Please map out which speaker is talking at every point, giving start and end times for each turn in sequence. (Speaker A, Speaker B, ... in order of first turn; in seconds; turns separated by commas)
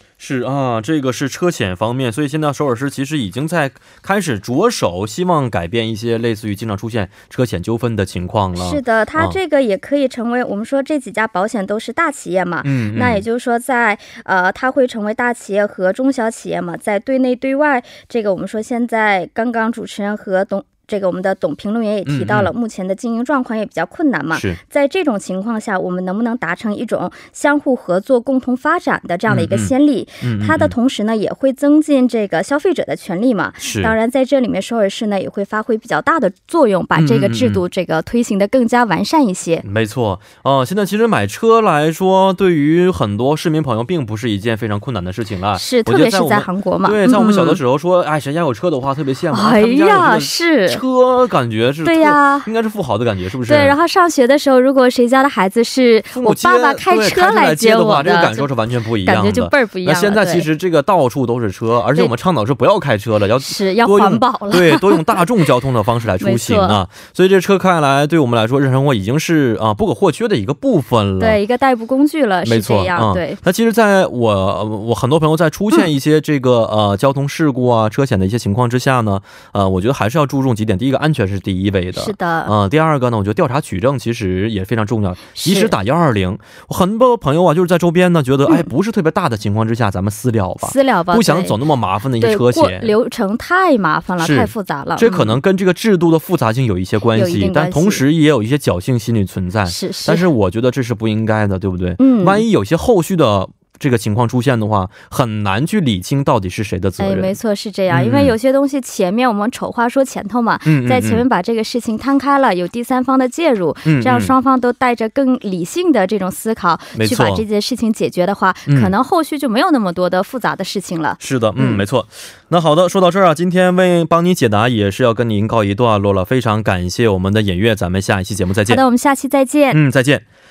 Speaker A: 0.2-9.4, Speaker B: 8.5-39.6, Speaker A: 12.6-13.2, Speaker A: 22.1-22.5, Speaker A: 24.3-24.6, Speaker A: 29.3-30.7, Speaker A: 33.6-33.9, Speaker A: 37.0-37.6, Speaker A: 39.6-53.8, Speaker B: 45.5-47.6, Speaker B: 49.3-50.8, Speaker B: 51.8-52.5, Speaker B: 53.5-58.5, Speaker A: 56.1-71.4, Speaker B: 59.0-60.5, Speaker B: 63.4-65.3, Speaker B: 66.2-66.8, Speaker B: 71.2-73.4, Speaker A: 72.4-92.9, Speaker B: 81.9-82.5, Speaker B: 85.3-85.8, Speaker B: 90.6-91.6, Speaker B: 92.2-95.4, Speaker A: 94.2-107.3, Speaker B: 97.1-98.0, Speaker B: 99.7-100.3, Speaker B: 102.0-102.4, Speaker B: 107.0-121.8, Speaker A: 107.9-108.3, Speaker A: 110.6-111.2, Speaker A: 113.8-114.3, Speaker A: 116.9-117.4, Speaker A: 121.2-128.8, Speaker B: 128.7-129.8, Speaker A: 129.7-130.2